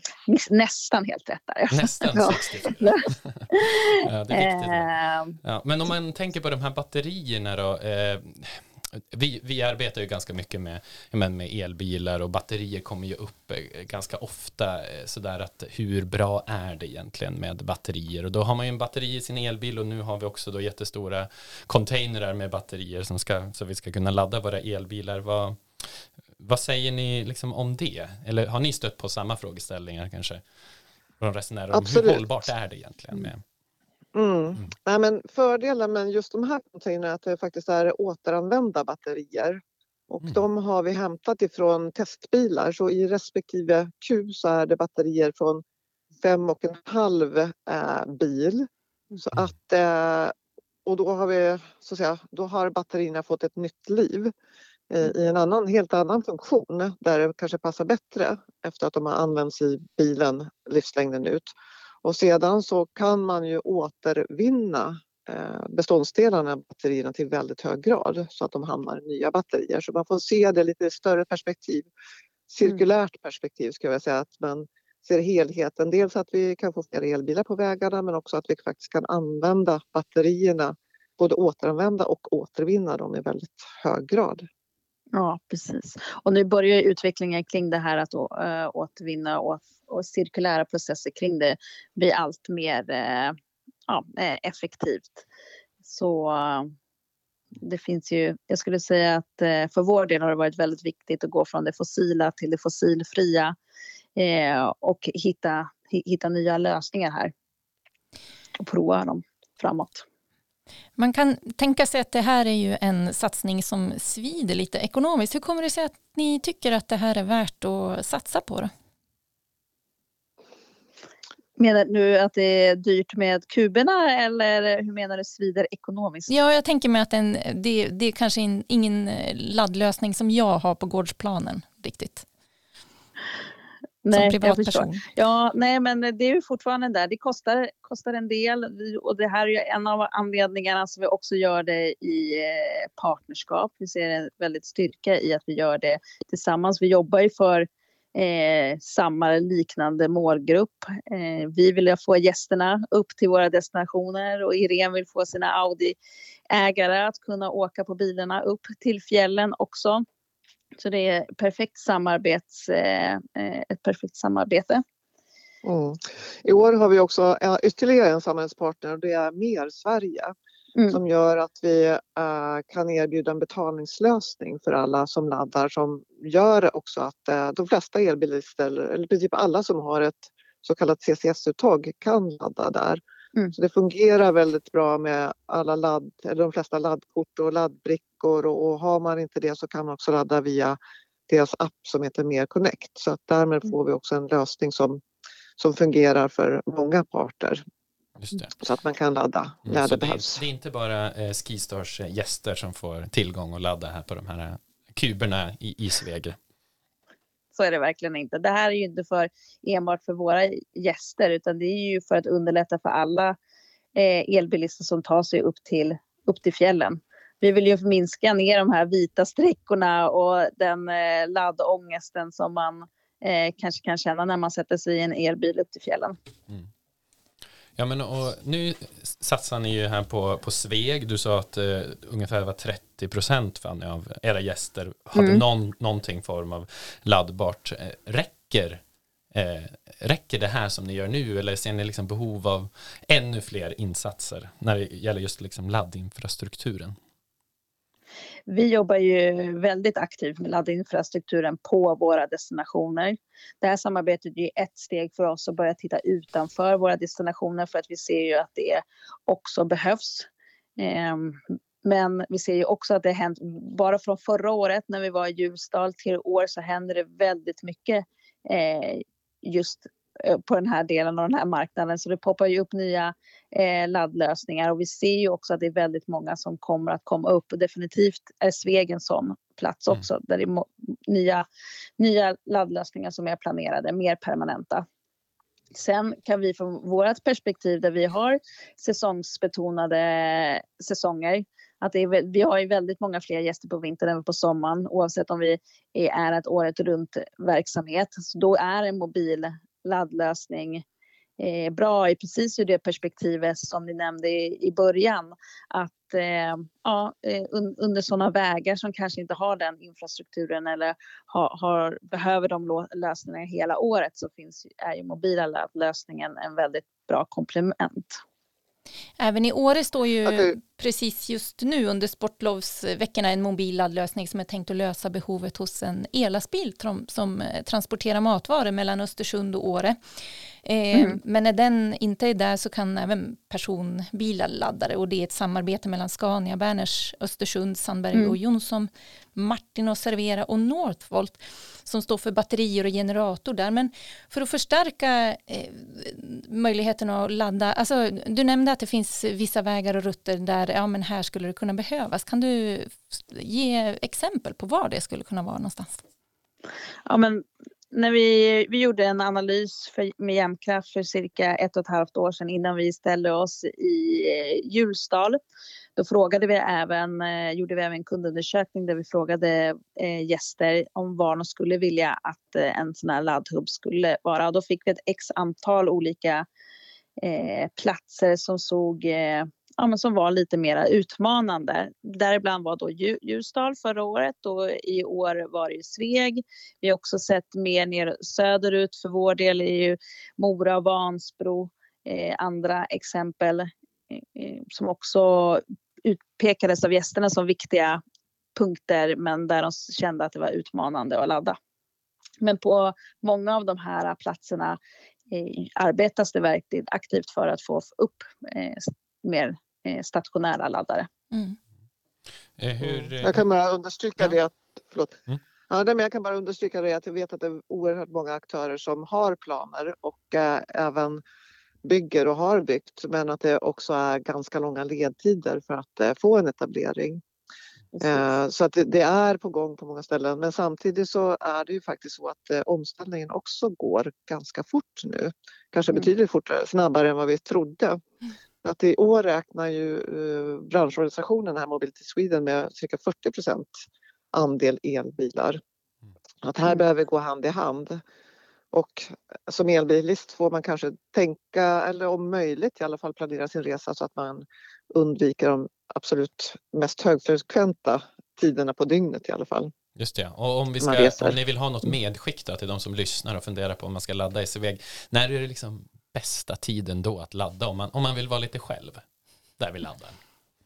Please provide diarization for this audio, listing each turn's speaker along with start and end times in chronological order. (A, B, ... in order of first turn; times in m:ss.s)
0:00.3-0:05.4 A
0:01.7-0:04.9 B
0:05.4-0:30.4 B
0:31.2-0:33.4 B
0:31.7-0:32.2 C
0:34.1-0:45.6 C
0:46.2-0:54.3 C
0:54.9-1:11.9 C
1:12.5-1:24.4 C
1:25.1-1:33.4 A
1:33.9-1:35.2 A
1:35.8-1:36.7 A
1:37.5-1:43.5 A
1:44.2-1:47.3 A
1:48.6-1:50.0 A
1:51.0-1:58.7 D
2:01.6-2:06.3 A
2:06.3-2:12.2 D
2:14.0-2:36.0 A
2:14.1-2:15.0 D
2:36.5-2:40.0 A
2:40.8-2:44.8 A
2:45.6-2:50.3 C
2:50.9-3:03.0 C
3:03.5-3:15.0 C
3:15.6-3:17.6 C
3:18.2-3:18.5 B
3:18.6-3:20.4 C
3:19.6-3:26.4 B
3:27.5-3:33.4 A
3:33.9-3:46.2 A
3:47.8-4:07.0 B
3:55.2-3:55.4 A
4:08.5-4:41.4 A
4:42.0-4:44.8 A
4:45.7-5:00.8 A
5:01.4-5:18.2 A
5:19.2-5:30.0 D
5:20.2-5:20.5 C
5:30.6-5:56.0 D
5:30.9-5:31.2 A
5:57.0-6:05.4 A
6:06.0-6:16.4 A
6:17.2-6:38.0 A
6:38.6-6:41.6 A
6:42.4-6:44.8 A
6:45.3-6:51.1 A
6:51.3-6:51.6 D
6:52.6-6:53.4 B
6:52.8-7:01.2 C
7:01.8-7:07.2 C
7:07.9-7:08.2 A
7:08.0-7:18.0 C
7:18.6-7:23.7 C
7:24.3-7:25.6 C
7:26.4-7:28.0 C
7:28.7-7:39.7 C
7:40.0-7:49.0 B
7:40.8-7:41.4 C
7:49.6-7:50.2 B